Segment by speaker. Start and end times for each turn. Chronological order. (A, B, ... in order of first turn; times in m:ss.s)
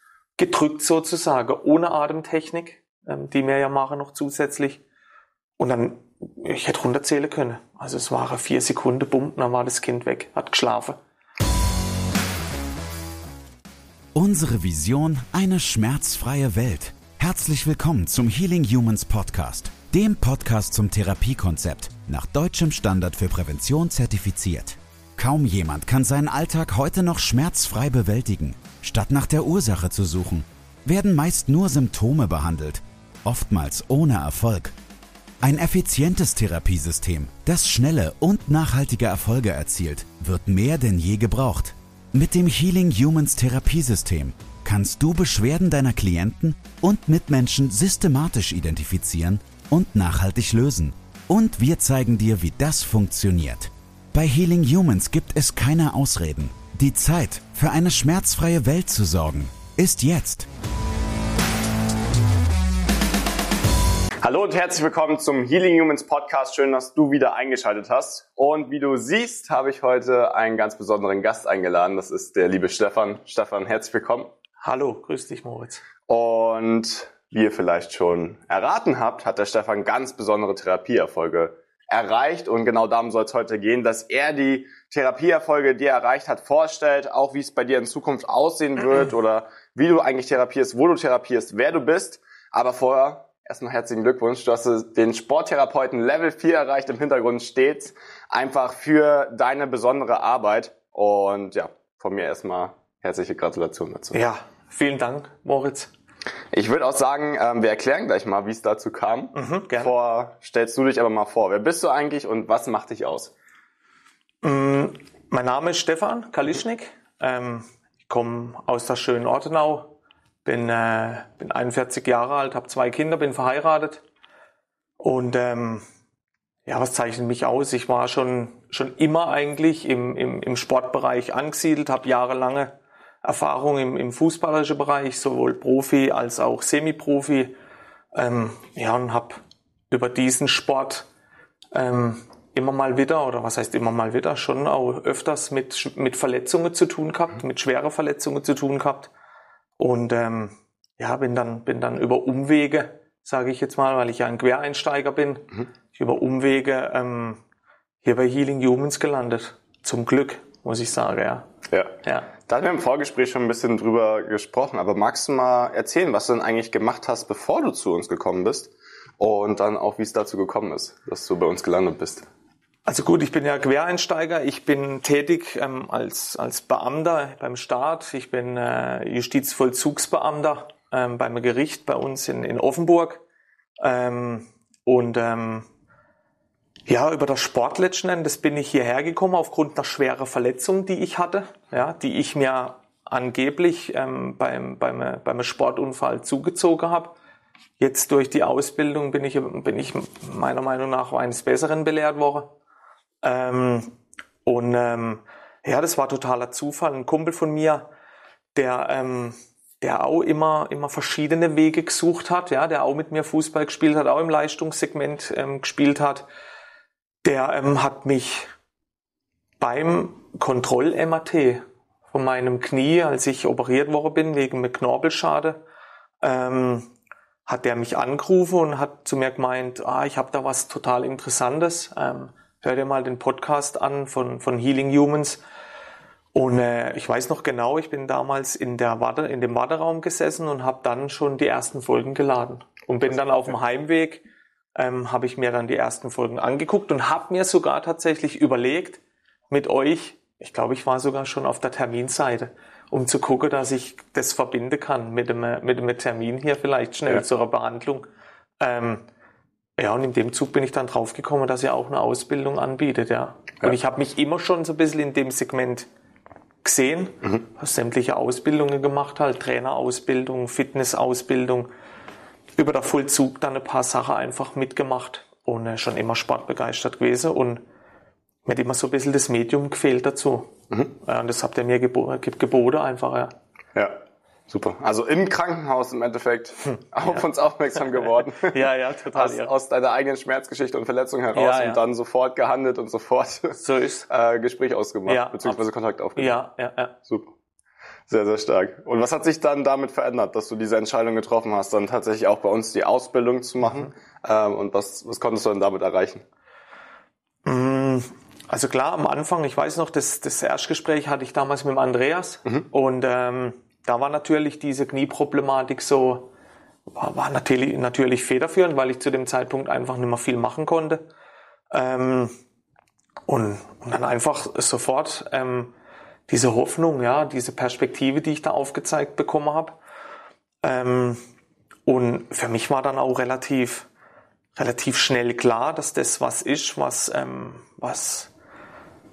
0:00.4-0:04.8 A
0:05.6-0:11.0 A
0:14.1-0:34.7 B
0:35.4-1:00.5 B
1:04.2-1:14.3 C
1:14.6-1:15.8 A
1:16.1-1:44.2 C
1:44.1-1:45.9 A
1:46.5-1:53.3 C
1:49.3-1:49.9 A
1:54.4-1:59.9 A
2:00.4-2:04.0 A
2:05.0-2:05.8 A
2:06.6-2:12.7 A
2:13.2-2:17.5 A
2:18.1-2:21.1 A
2:21.7-2:29.1 A
2:29.8-2:37.4 A
2:38.0-2:41.5 A
2:41.7-2:52.2 C
2:42.0-2:42.3 A
2:52.8-3:03.2 A
3:03.8-3:05.6 A
3:06.9-3:17.1 A
3:17.8-3:22.5 A
3:23.2-3:23.9 A
3:24.4-3:27.9 A
3:28.5-3:36.2 A
3:37.2-3:38.5 A
3:39.6-3:45.6 A
3:46.2-3:46.9 A
3:47.4-3:55.4 A
3:56.3-4:04.2 A
4:04.8-4:18.0 A
4:18.6-4:19.0 A
4:19.8-4:25.9 A
4:26.6-4:31.7 A
4:32.6-4:37.6 A
4:38.4-4:43.3 A
4:44.5-4:53.6 C
4:47.8-4:49.5 A
4:51.3-4:51.8 A
4:53.6-4:54.0 A
4:54.1-4:56.4 C
4:55.1-4:55.6 A
4:56.2-4:56.9 A
4:57.0-4:57.3 C
4:58.1-5:06.2 C
5:03.6-5:03.9 A
5:07.4-5:16.3 A
5:16.9-5:21.0 A
5:21.7-5:22.3 A
5:23.3-5:25.7 A
5:26.3-5:29.8 A
5:30.6-5:31.2 A
5:31.8-5:33.9 A
5:34.6-5:38.3 A